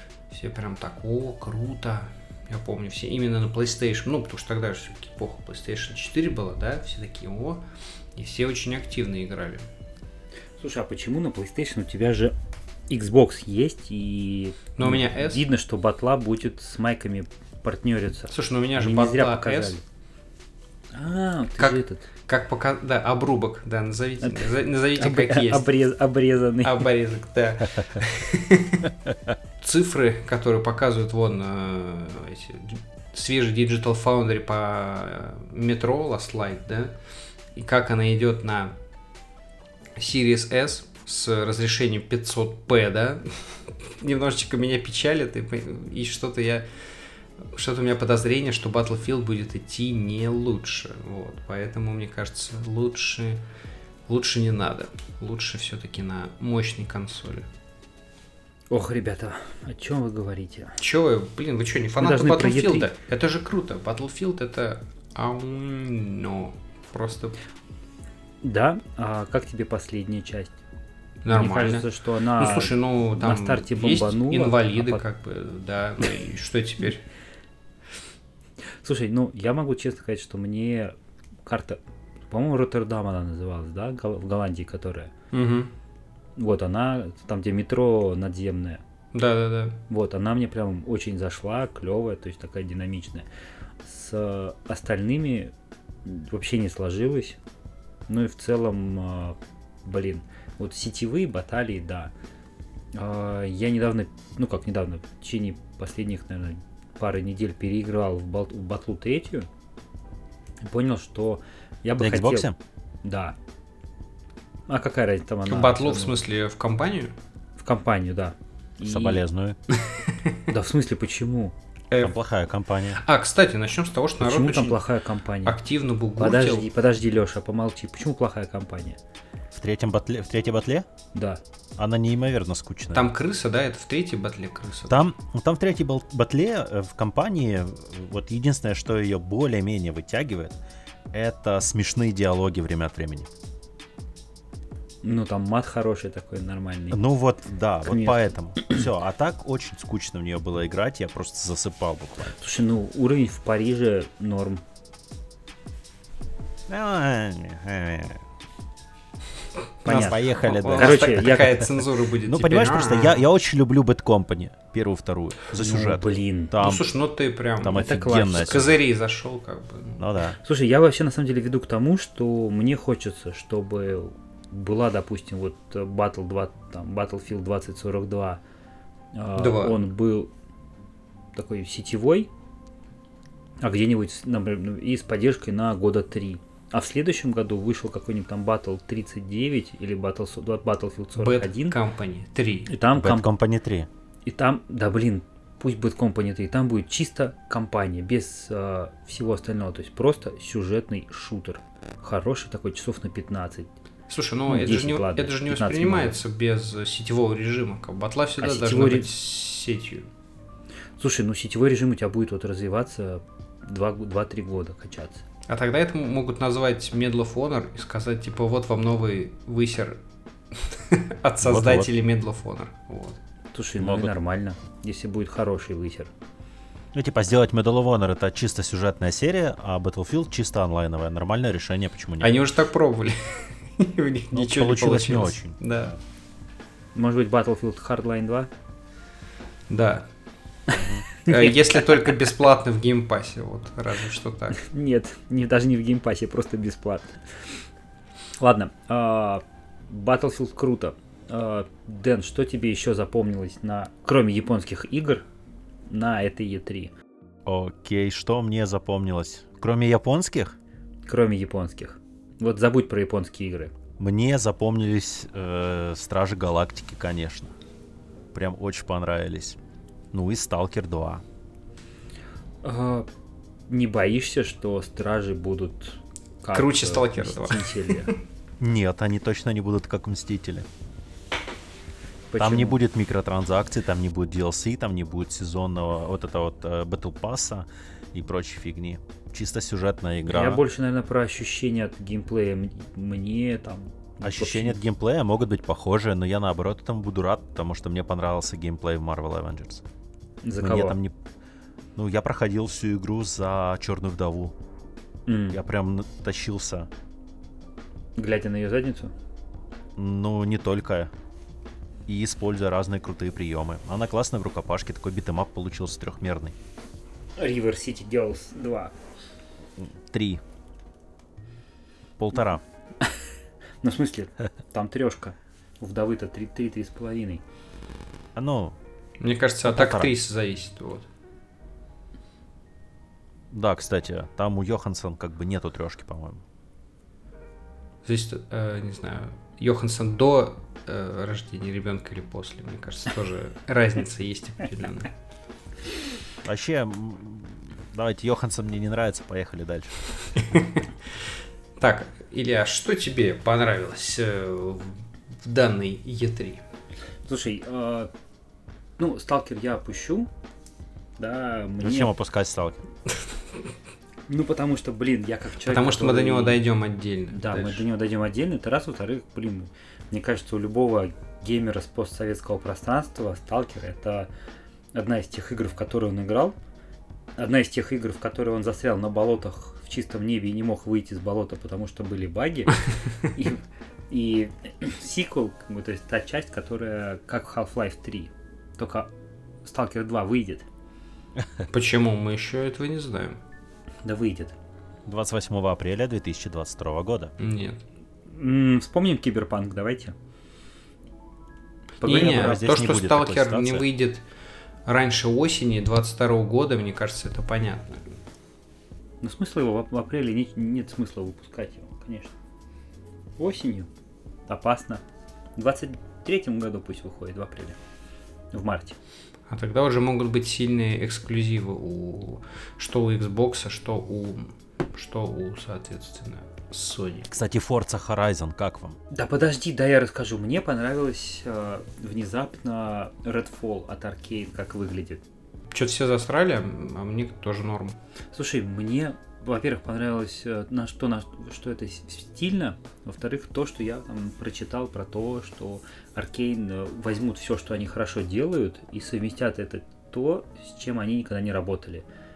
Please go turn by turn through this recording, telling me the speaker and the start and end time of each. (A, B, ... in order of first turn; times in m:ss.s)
0:00.3-0:07.6 A
0:08.1-0:09.6 A
0:10.6-0:12.3 B
0:12.9-0:19.8 B
0:14.8-0:15.5 A
0:18.3-0:19.8 A
0:20.9-0:22.0 B
0:21.6-0:25.7 A
0:24.2-0:26.9 B
0:26.6-0:28.9 A
0:29.6-0:36.9 A
0:37.5-0:38.8 A
0:40.0-0:46.7 A
0:47.4-0:53.4 A
0:54.1-0:57.5 A
0:58.7-1:00.8 B
1:00.8-1:07.4 A
1:02.0-1:02.9 B
1:08.4-1:10.5 B
1:11.2-1:11.8 A
1:11.3-1:15.0 B
1:12.4-1:17.0 A
1:18.8-1:20.9 B
1:21.4-1:25.1 B
1:25.3-1:25.7 A
1:26.4-1:28.8 B
1:29.1-1:29.8 A
1:29.9-1:33.2 B
1:33.8-1:35.5 B
1:36.0-1:37.4 B
1:38.1-1:42.1 B
1:42.9-1:49.5 B
1:50.6-1:52.5 B
1:52.0-1:52.6 C
1:53.0-1:53.4 B
1:54.7-1:56.2 B
1:55.5-1:57.1 A
1:57.6-1:59.2 B
1:58.8-1:59.6 C
1:59.9-2:00.4 A
2:00.5-2:01.5 B
2:02.0-2:03.0 C
2:03.0-2:04.8 A
2:04.2-2:05.6 B
2:05.4-2:06.6 A
2:06.2-2:09.0 B
2:09.5-2:10.8 C
2:11.1-2:11.4 B
2:11.8-2:13.0 C
2:12.9-2:15.0 A
2:14.9-2:20.6 C
2:21.1-2:23.3 C
2:25.0-2:27.0 B
2:26.9-2:32.4 C
2:27.8-2:28.8 B
2:32.4-2:34.6 B
2:36.7-2:38.2 C
2:39.8-2:41.6 B
2:39.8-2:41.7 C
2:39.9-2:43.2 A
2:42.2-2:46.9 C
2:45.6-2:46.5 B
2:46.6-2:50.0 A
2:47.6-2:48.8 C
2:47.7-2:48.7 B
2:50.0-2:50.4 C
2:50.4-2:58.4 B
2:59.1-3:00.3 B
2:59.4-2:59.8 A
3:01.4-3:02.3 B
3:03.6-3:11.8 B
3:11.2-3:12.7 A
3:12.7-3:13.3 B
3:12.9-3:13.9 C
3:14.2-3:23.7 B
3:24.1-3:30.1 A
3:24.5-3:26.2 B
3:28.4-3:29.1 B
3:31.0-3:35.2 B
3:35.5-3:40.0 A
3:40.5-3:43.2 A
3:41.4-3:41.9 C
3:43.5-3:46.1 B
3:43.8-3:44.1 C
3:46.9-3:52.4 C
3:52.2-3:55.9 A
3:54.3-3:56.0 C
3:56.9-3:58.5 B
3:59.7-4:00.1 A
4:00.7-4:01.0 C
4:01.2-4:04.6 A
4:01.2-4:01.5 B
4:04.5-4:07.5 B
4:08.4-4:15.2 B
4:15.9-4:16.9 B
4:17.4-4:20.6 C
4:21.0-4:23.7 B
4:24.0-4:27.5 C
4:28.3-4:29.6 C
4:30.1-4:31.2 C
4:32.6-4:33.1 B
4:33.7-4:38.1 B
4:36.5-4:38.1 A
4:38.6-4:40.7 C
4:42.3-4:42.8 B
4:42.4-4:50.6 C
4:50.3-4:54.8 B
4:54.2-4:59.8 C
5:00.4-5:01.0 B
5:00.6-5:01.1 C
5:02.0-5:04.5 C
5:05.3-5:05.6 B
5:05.5-5:06.9 C
5:08.2-5:09.1 B
5:10.0-5:11.1 C
5:12.1-5:16.6 C
5:17.4-5:18.9 B
5:19.8-5:20.4 C
5:22.2-5:22.6 C
5:23.8-5:27.4 B
5:28.4-5:28.8 C
5:29.2-5:31.1 A
5:29.6-5:30.1 C
5:33.5-5:36.4 C
5:38.0-5:45.1 A
5:46.4-5:49.9 C
5:50.4-5:50.9 A
5:51.8-5:56.6 A
5:57.3-5:58.1 B
5:59.0-6:00.3 B
6:01.2-6:02.1 B
6:01.8-6:02.8 C
6:04.3-6:06.6 B
6:05.6-6:07.8 A
6:07.3-6:14.3 B
6:14.9-6:16.6 B
6:17.4-6:29.1 B
6:29.6-6:30.6 B
6:31.7-6:33.4 A
6:34.0-6:34.6 B
6:35.0-6:37.3 C
6:37.4-6:37.8 A
6:38.3-6:40.1 B
6:42.0-6:42.6 B
6:42.0-6:44.2 A
6:42.0-6:43.9 C
6:44.8-6:48.1 A
6:49.2-6:52.3 B
6:53.4-6:53.9 B
6:54.5-6:55.0 B
6:55.6-6:57.8 B
6:58.5-6:58.9 B
6:59.5-7:07.3 A
7:07.3-7:09.0 C
7:09.1-7:15.2 B
7:15.7-7:18.0 A
7:18.3-7:32.0 B